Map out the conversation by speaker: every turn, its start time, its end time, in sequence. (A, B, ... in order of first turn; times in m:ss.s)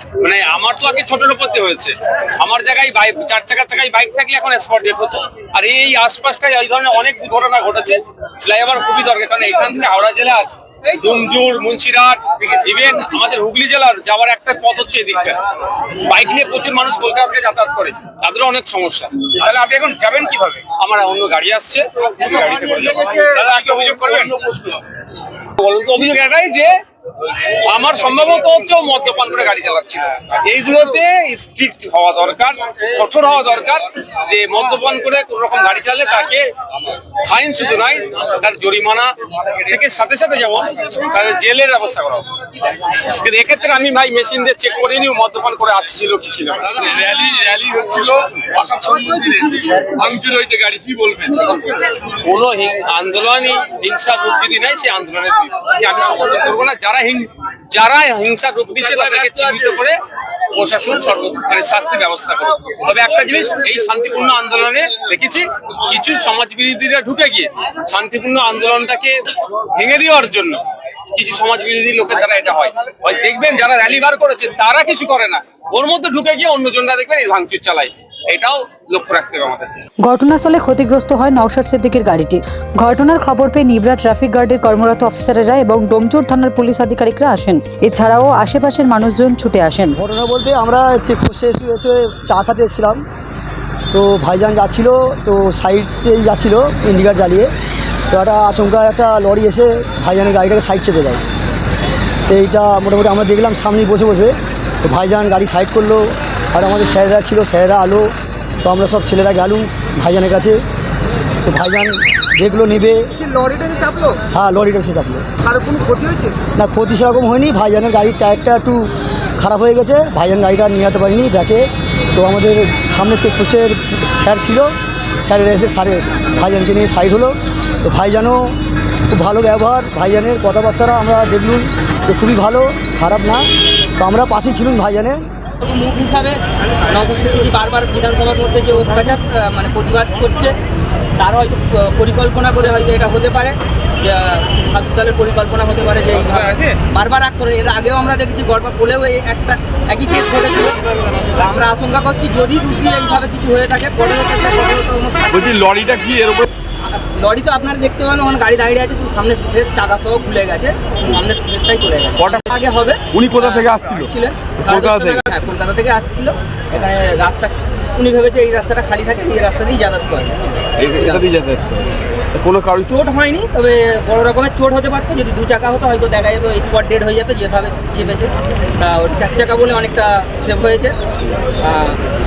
0:00.2-0:15.4 A
0:16.0-0:19.2 A
0:19.3-0:20.6 B
0:20.8-0:24.2 A
0:22.5-0:24.8 B
0:25.6-0:26.7 A
0:27.7-0:36.5 A
0:37.2-0:42.3 A
0:43.0-0:46.8 A
0:46.7-0:51.7 B
0:52.2-1:00.0 A
1:00.5-1:09.1 A
1:09.7-1:10.6 A
1:11.1-1:19.8 A
1:20.0-1:30.0 C
1:29.9-1:33.0 D
1:33.9-1:37.5 D
1:38.1-1:41.2 D
1:42.3-1:50.6 D
1:51.4-1:53.1 D
1:53.2-1:54.2 E
1:54.3-1:55.3 D
1:55.4-1:56.4 E
1:56.5-2:08.6 D
2:09.1-2:13.4 D
2:14.0-2:15.2 D
2:15.6-2:20.6 F
2:21.2-2:30.8 F
2:31.3-2:35.4 F
2:35.3-2:36.5 B
2:36.8-2:50.4 F
2:43.1-2:44.1 B
2:44.6-2:45.4 B
2:50.8-2:52.9 B
2:50.9-2:51.3 F
2:52.8-3:01.0 F
3:01.6-3:02.0 F